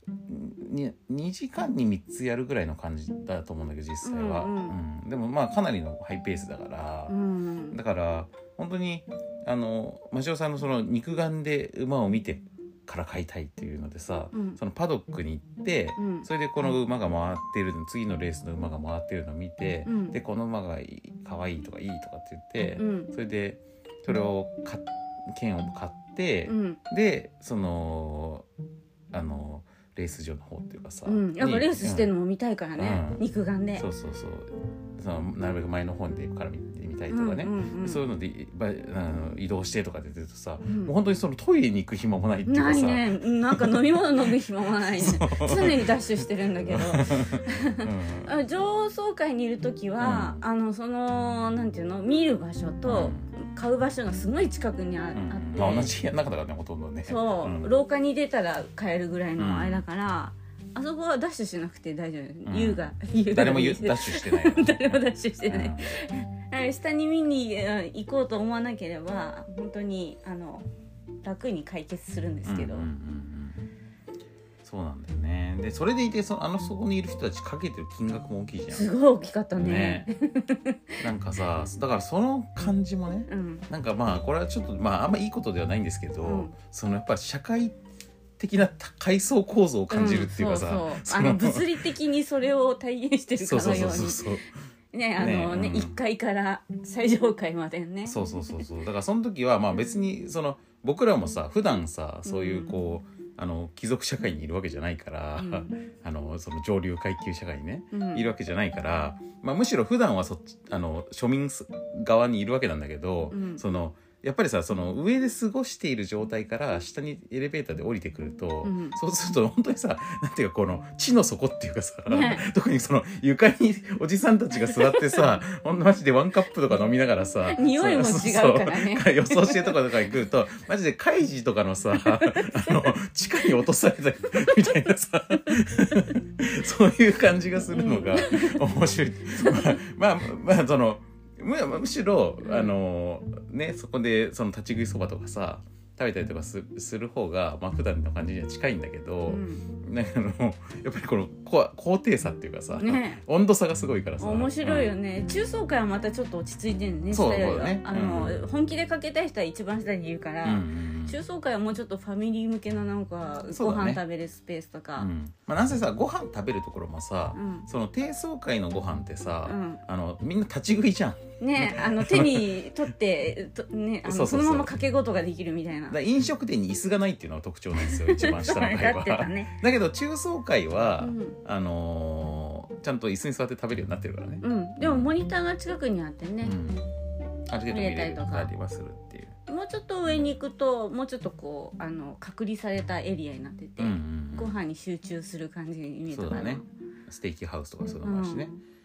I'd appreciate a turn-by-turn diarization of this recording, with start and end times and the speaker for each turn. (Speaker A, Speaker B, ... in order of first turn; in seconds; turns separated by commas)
Speaker A: 0.2-7.2, Speaker B: 4.0-4.8, Speaker B: 7.1-7.8, Speaker A: 7.7-28.5, Speaker B: 14.3-14.6, Speaker B: 16.0-16.3, Speaker B: 19.9-20.2, Speaker B: 22.8-23.1, Speaker B: 26.5-26.8, Speaker A: 29.1-32.1, Speaker B: 31.1-33.9, Speaker A: 32.8-33.2, Speaker A: 33.8-48.3, Speaker B: 37.1-38.0, Speaker B: 40.7-40.9, Speaker B: 42.5-55.9, Speaker A: 50.0-50.4, Speaker A: 52.9-53.3, Speaker A: 55.1-57.7, Speaker B: 57.0-70.7, Speaker A: 59.4-59.8, Speaker A: 62.5-66.0, Speaker B: 71.2-72.9, Speaker A: 72.5-73.7, Speaker A: 74.6-78.9, Speaker B: 78.7-81.0, Speaker A: 79.6-80.1, Speaker A: 81.0-87.8, Speaker B: 83.3-83.7, Speaker B: 86.2-86.5, Speaker A: 88.4-91.9, Speaker B: 89.9-94.3, Speaker A: 93.4-94.5, Speaker B: 94.9-98.4, Speaker A: 95.2-96.0, Speaker A: 98.1-155.0, Speaker B: 102.2-102.8, Speaker B: 105.4-105.8, Speaker B: 107.9-108.2, Speaker B: 113.3-113.6, Speaker B: 118.6-119.0, Speaker B: 122.1-122.5, Speaker B: 124.6-125.3, Speaker B: 127.5-129.9, Speaker B: 132.2-132.9, Speaker B: 134.4-134.7, Speaker B: 137.7-138.7, Speaker B: 139.3-139.8, Speaker B: 142.4-142.7, Speaker B: 149.3-149.6, Speaker B: 152.8-153.2, Speaker B: 154.2-165.1, Speaker A: 157.1-158.4, Speaker A: 160.4-161.2, Speaker A: 163.5-164.0, Speaker A: 165.0-172.7, Speaker B: 167.3-167.7, Speaker B: 169.5-169.8, Speaker B: 171.4-176.0, Speaker A: 174.0-174.7, Speaker A: 175.9-185.1, Speaker B: 177.8-179.6, Speaker B: 181.0-181.4, Speaker B: 184.4-186.6, Speaker A: 186.4-186.9, Speaker A: 187.5-189.4, Speaker B: 187.7-188.5, Speaker B: 189.5-196.7, Speaker A: 193.8-194.6, Speaker A: 196.1-198.5, Speaker B: 198.0-198.6